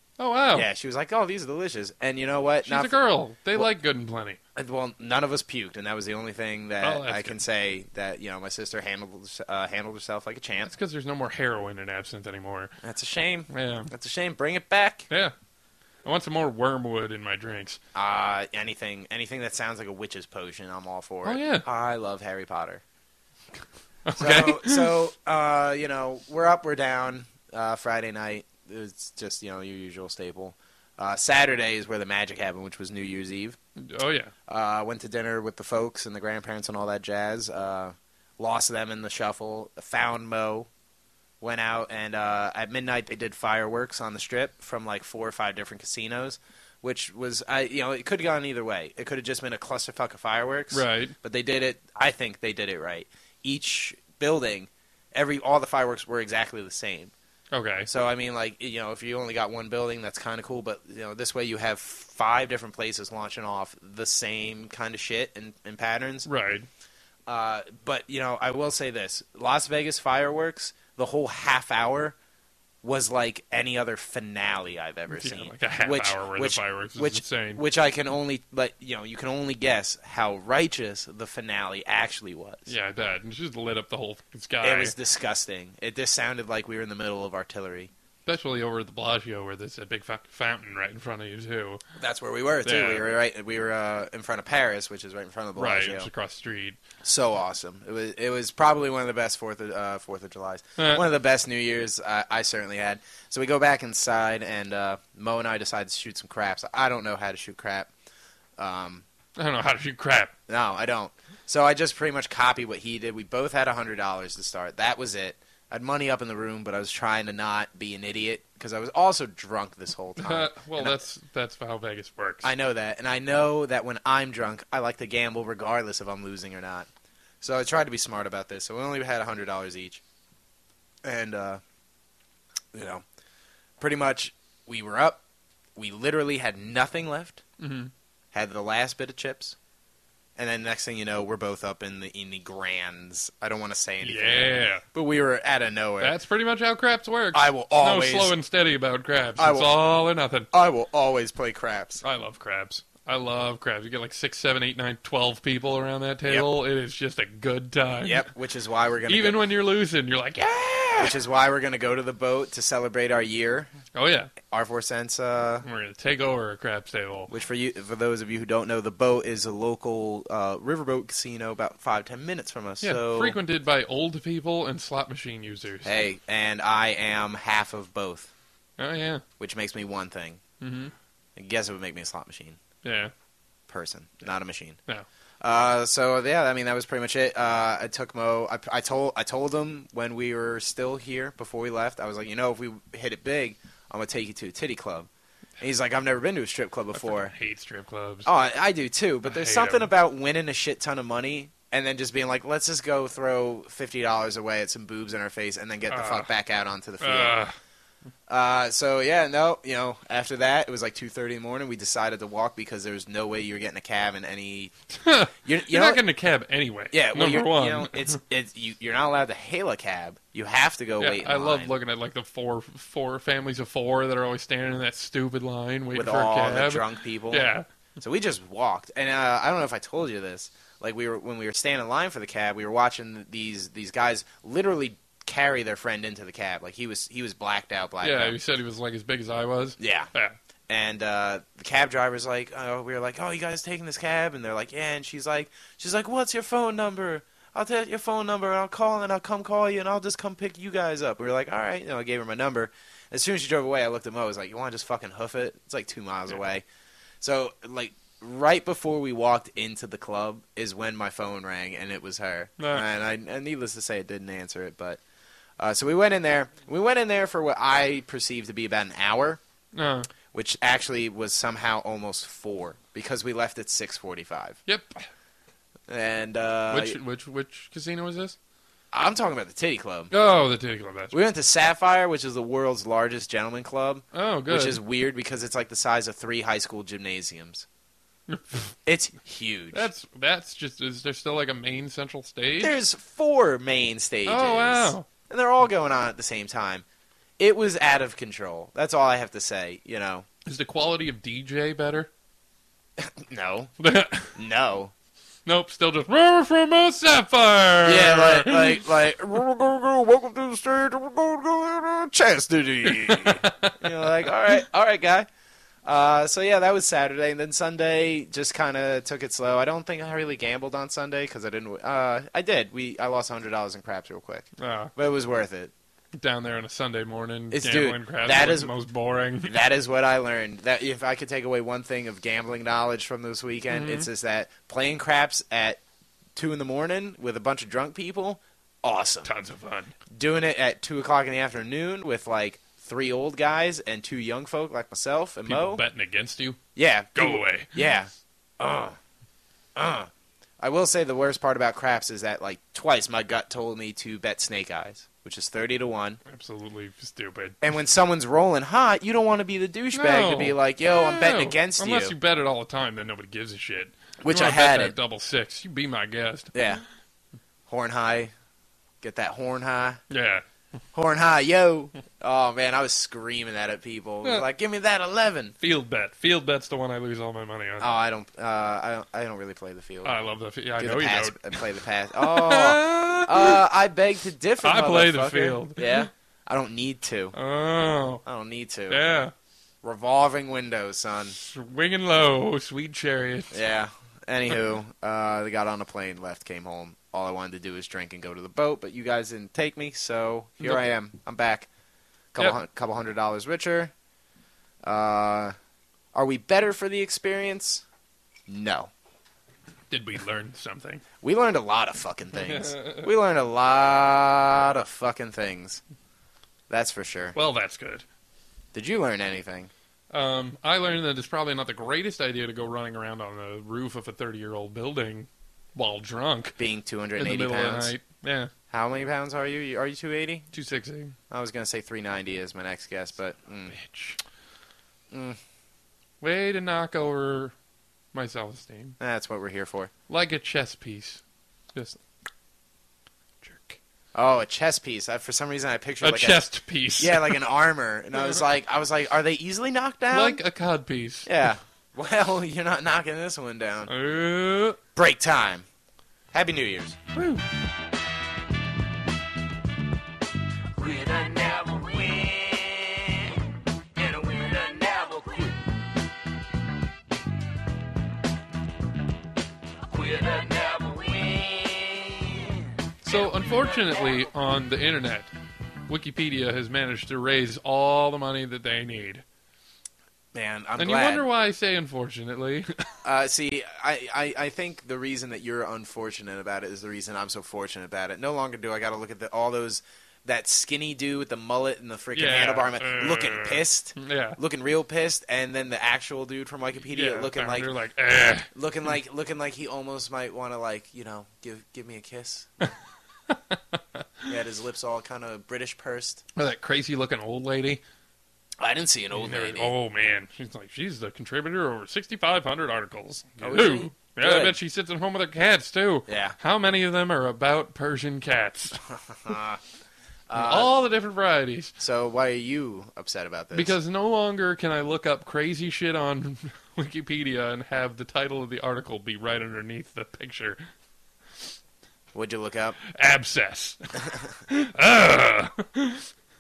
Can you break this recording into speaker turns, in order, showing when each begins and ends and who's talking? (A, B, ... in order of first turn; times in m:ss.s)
0:00.2-0:00.7 A
0:00.5-0:03.0 B
0:02.6-0:04.4 A
0:04.6-0:10.7 B
0:06.8-0:07.4 A
0:10.7-0:12.7 A
0:12.8-0:15.1 B
0:13.5-0:13.9 A
0:16.0-0:17.8 A
0:17.9-0:22.8 B
0:21.2-0:21.7 A
0:24.1-0:24.9 A
0:24.2-0:33.6 B
0:33.8-0:34.3 A
0:34.5-0:40.7 B
0:41.4-0:57.1 B
0:50.7-0:51.2 A
0:57.5-0:57.9 A
0:57.9-1:06.3 B
1:06.2-1:06.7 A
1:07.3-1:12.2 B
1:12.8-1:22.7 B
1:15.1-1:17.6 A
1:22.7-1:25.0 A
1:24.6-1:27.9 B
1:28.3-1:31.8 A
1:32.0-1:36.1 B
1:32.6-1:33.1 A
1:35.6-1:36.8 A
1:37.0-1:47.9 B
1:40.8-1:41.0 A
1:48.6-1:49.0 B
1:49.4-1:50.3 A
1:50.5-2:01.0 B
2:00.2-2:02.5 A
2:02.4-2:06.9 B
2:07.4-2:10.0 B
2:11.0-2:11.6 B
2:12.7-2:13.0 B
2:13.8-2:15.2 B
2:15.8-2:17.4 B
2:17.6-2:17.9 A
2:18.3-2:19.6 B
2:20.4-2:26.2 B
2:24.0-2:24.8 A
2:26.0-2:30.5 A
2:27.3-2:28.4 B
2:29.4-2:29.8 B
2:30.5-2:32.0 B
2:32.0-2:38.3 A
2:38.0-2:39.5 B
2:39.1-2:41.1 A
2:41.0-2:43.7 B
2:43.9-2:44.3 A
2:44.4-2:45.7 B
2:45.6-2:47.3 A
2:47.3-2:53.4 B
2:52.8-2:56.0 A
2:55.8-2:58.3 B
2:58.8-2:59.2 A
2:59.4-3:00.4 B
3:00.6-3:00.9 A
3:01.4-3:02.6 B
3:02.8-3:03.1 A
3:03.7-3:04.8 B
3:05.4-3:15.1 B
3:15.6-3:17.3 B
3:16.9-3:18.3 A
3:18.2-3:27.4 B
3:19.2-3:19.9 A
3:25.9-3:26.3 A
3:27.0-3:27.6 A
3:28.3-3:34.7 B
3:34.9-3:38.1 A
3:35.4-3:36.0 B
3:36.9-3:41.7 B
3:41.0-3:47.7 A
3:45.9-3:47.5 B
3:48.0-3:58.4 B
3:58.0-4:00.4 A
3:59.8-4:00.1 B
4:00.7-4:16.6 B
4:17.2-4:25.0 B
4:22.6-4:22.8 A
4:25.6-4:29.4 B
4:29.7-4:30.1 A
4:30.3-4:34.6 B
4:34.7-4:35.0 A
4:35.9-4:37.0 B
4:36.7-4:38.4 A
4:38.9-4:40.1 B
4:40.1-4:41.2 A
4:41.1-4:47.7 B
4:44.1-4:44.8 A
4:48.3-4:48.6 A
4:48.9-4:49.9 B
4:49.7-4:52.8 A
4:52.6-4:56.8 B
4:54.3-4:55.1 A
4:57.4-5:00.3 B
5:00.5-5:02.1 A
5:03.0-5:03.7 B
5:03.8-5:04.4 A
5:04.3-5:04.9 B
5:05.5-5:08.9 A
5:07.8-5:15.3 B
5:12.9-5:13.9 A
5:15.8-5:25.7 B
5:24.6-5:24.9 A
5:26.2-5:29.6 A
5:27.5-5:28.7 B
5:29.4-5:35.8 B
5:33.7-5:34.1 A
5:36.4-5:39.3 B
5:39.2-5:40.0 A
5:40.1-5:45.8 B
5:45.5-5:46.6 A
5:46.8-5:49.0 B
5:47.2-5:47.8 A
5:49.8-5:56.2 B
5:56.3-5:57.6 A
5:57.6-6:02.1 B
5:59.9-6:06.6 A
6:04.2-6:04.9 B
6:06.5-6:06.8 B
6:07.7-6:08.3 B
6:09.0-6:10.0 B
6:10.1-6:10.4 A
6:10.9-6:15.6 B
6:15.6-6:17.9 A
6:17.8-6:20.2 B
6:20.0-6:21.6 A
6:20.8-6:27.3 B
6:22.2-6:23.6 A
6:24.6-6:26.1 A
6:27.3-6:28.2 A
6:28.3-6:29.0 B
6:28.9-6:29.3 A
6:29.8-6:31.4 B
6:31.4-6:33.6 A
6:33.5-6:41.7 B
6:42.3-6:43.9 B
6:44.8-6:45.5 B
6:46.1-6:47.8 B
6:48.5-6:48.9 B
6:49.9-6:51.0 A
6:51.2-6:55.8 B
6:52.4-6:53.1 A
6:56.7-6:57.4 B
6:57.4-6:58.0 A
6:58.7-6:59.7 B
7:00.1-7:06.6 A
7:06.6-7:08.0 B
7:07.2-7:08.5 A
7:08.7-7:10.5 B
7:10.5-7:11.2 A
7:11.3-7:13.8 B
7:13.7-7:14.2 A
7:15.1-7:15.4 B
7:16.2-7:17.5 A
7:18.1-7:19.0 A
7:19.0-7:19.9 B
7:20.1-7:21.2 A
7:21.7-7:22.0 A
7:23.4-7:23.8 A
7:24.1-7:26.4 B
7:26.0-7:27.4 A
7:27.0-7:30.4 B
7:30.1-7:31.3 A
7:31.2-7:33.9 B
7:33.9-7:34.8 A
7:35.0-7:35.7 B
7:36.3-7:37.0 B
7:37.1-7:37.4 A
7:40.8-7:42.5 C
7:44.0-7:45.5 C
7:49.9-7:51.5 C
7:53.0-7:55.3 A
7:55.9-7:59.2 A
8:00.3-8:01.3 B
8:00.8-8:02.9 A
8:03.0-8:17.7 B
8:12.2-8:14.4 A
8:16.9-8:18.5 A
8:18.5-8:22.5 B
8:23.3-8:24.3 A
8:24.3-8:26.2 B
8:26.4-8:27.8 A
8:28.6-8:29.7 B
8:29.2-8:38.8 A
8:33.4-8:34.6 B
8:36.1-8:36.4 B
8:38.9-8:39.6 B
8:40.3-8:40.8 B
8:40.4-8:41.7 A
8:41.8-8:43.8 B
8:43.5-8:50.6 A
8:52.1-8:52.8 B
8:52.9-8:56.1 A